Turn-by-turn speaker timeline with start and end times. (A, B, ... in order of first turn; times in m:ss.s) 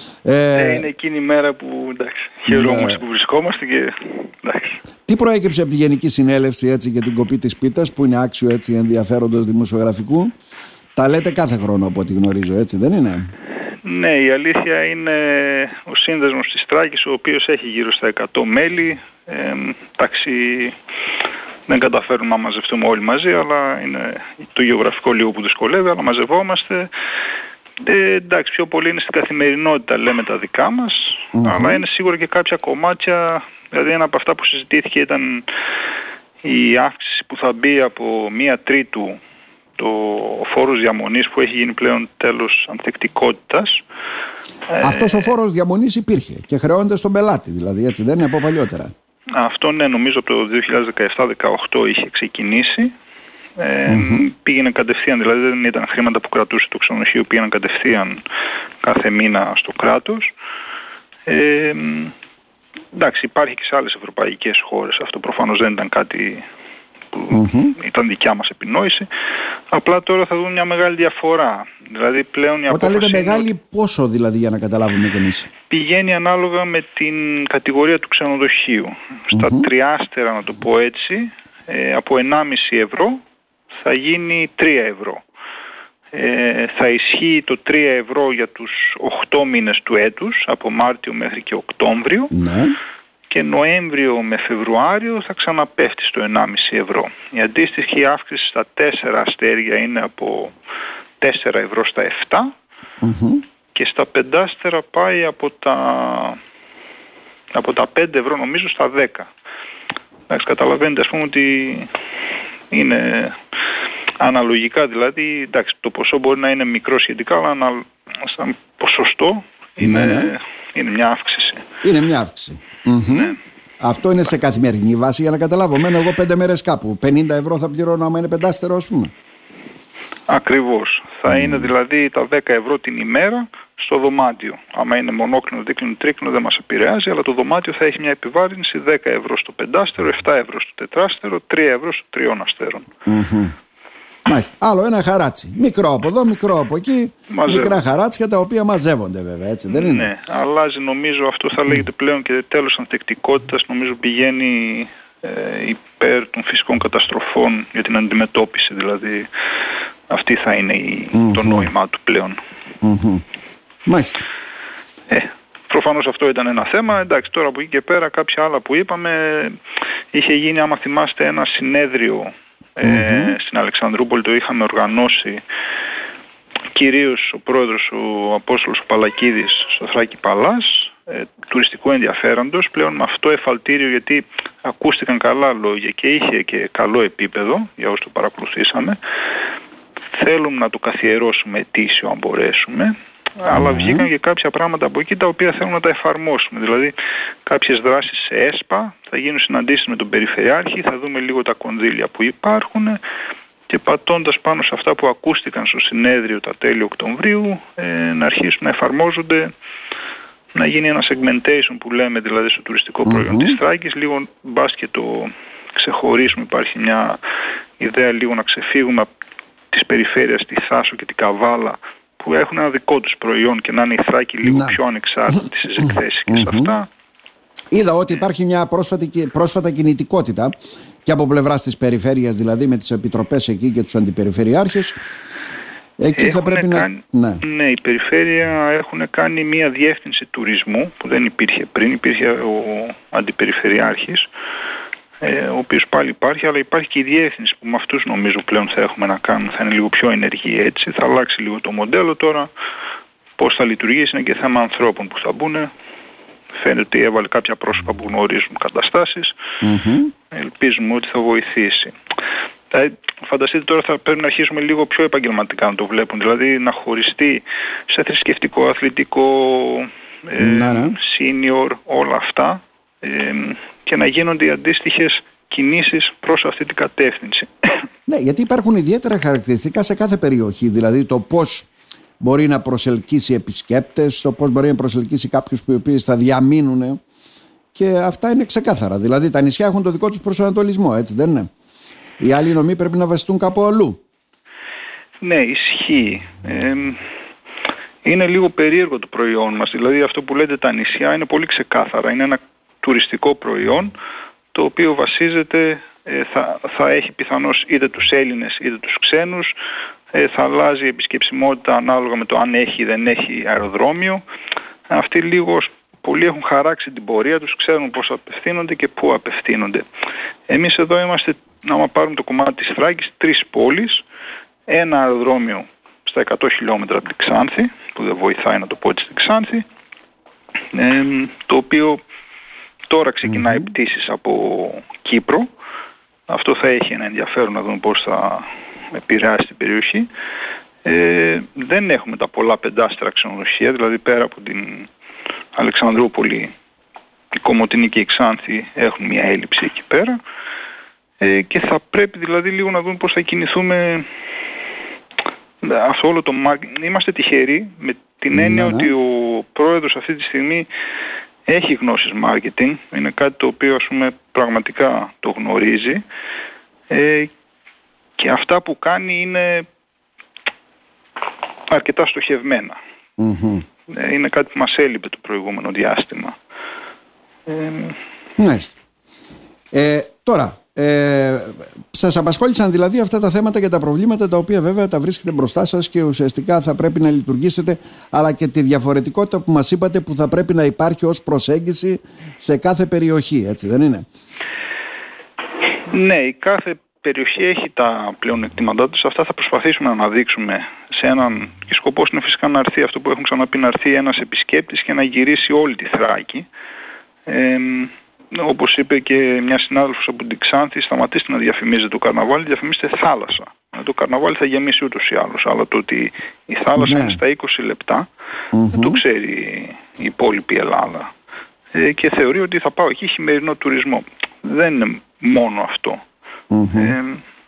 0:00.2-0:00.9 A
0:00.5-0:04.8 B
0:02.5-0:03.0 A
0:05.1-0:10.3 A
0:11.0-0:13.3 A
0:13.8-0:20.8 B
0:21.7-0:26.9 B
0:27.8-0:35.4 B
0:31.3-0:31.8 A
0:36.4-0:39.2 B
0:39.8-0:43.8 B
0:44.7-0:45.3 B
0:44.8-0:48.9 A
0:49.3-0:52.9 B
0:53.6-0:58.2 B
0:53.9-0:54.3 A
0:58.8-1:00.3 B
1:01.3-1:02.1 B
1:02.9-1:06.4 B
1:07.1-1:09.1 B
1:07.3-1:07.8 A
1:09.7-1:13.5 B
1:12.7-1:15.5 A
1:15.7-1:23.2 B
1:19.3-1:19.7 A
1:23.8-1:25.2 B
1:26.1-1:32.3 B
1:32.3-1:32.8 A
1:33.3-1:40.5 B
1:41.2-1:42.5 B
1:43.0-1:43.4 A
1:43.7-1:46.4 B
1:47.5-1:49.3 B
1:50.3-1:51.9 B
1:52.7-1:53.4 B
1:54.2-2:01.6 B
1:59.8-2:00.3 A
2:01.8-2:09.1 A
2:03.1-2:03.4 B
2:10.3-2:22.8 B
2:11.3-2:11.7 A
2:23.0-2:23.5 A
2:24.2-2:30.1 A
2:27.3-2:27.8 B
2:29.7-2:39.3 B
2:40.1-2:42.4 B
2:41.1-2:41.7 A
2:42.8-2:43.2 A
2:43.8-2:44.2 A
2:45.1-2:49.6 B
2:50.1-2:55.4 B
2:52.8-2:53.3 A
2:56.7-3:09.0 B
3:10.1-3:16.9 B
3:13.5-3:14.1 A
3:17.4-3:23.0 B
3:23.7-3:29.5 B
3:30.5-3:37.2 B
3:33.0-3:33.6 A
3:37.8-3:39.1 B
3:39.7-3:46.9 B
3:44.4-3:44.8 A
3:45.3-3:46.7 A
3:47.7-3:55.0 A
3:56.0-3:57.4 A
3:56.2-4:04.3 B
4:05.2-4:12.5 B
4:13.4-4:15.7 B
4:16.5-4:19.3 B
4:19.6-4:20.1 A
4:20.3-4:21.9 B
4:22.7-4:37.5 B
4:30.4-4:31.0 A
4:38.1-4:41.7 A
4:42.2-4:47.0 A
4:47.8-4:51.5 A
4:52.2-4:54.0 A
4:55.2-4:57.0 B
4:58.0-5:03.9 B
5:04.5-5:09.5 B
5:10.1-5:14.2 B
5:14.9-5:19.8 B
5:20.5-5:24.0 B
5:24.7-5:29.6 B
5:30.7-5:32.0 B
5:32.9-5:35.5 B
5:33.3-5:33.6 A
5:36.3-5:40.1 B
5:40.8-5:44.9 B
5:45.5-5:46.5 B
5:47.4-5:50.2 B
5:51.2-5:54.1 B
5:55.6-6:00.7 B
5:58.3-5:58.9 A
6:01.5-6:06.0 B
6:06.9-6:07.3 B
6:08.2-6:09.6 B
6:11.7-6:12.8 B
6:13.2-6:13.6 A
6:13.9-6:16.4 B
6:17.5-6:18.0 B
6:18.4-6:18.8 A
6:19.7-6:34.0 A
6:35.9-6:46.4 B
6:47.3-6:58.1 B
6:56.8-6:57.2 A
6:58.5-6:59.0 A
6:58.7-7:01.1 B
7:01.7-7:06.0 B
7:06.5-7:07.0 A
7:06.8-7:07.2 B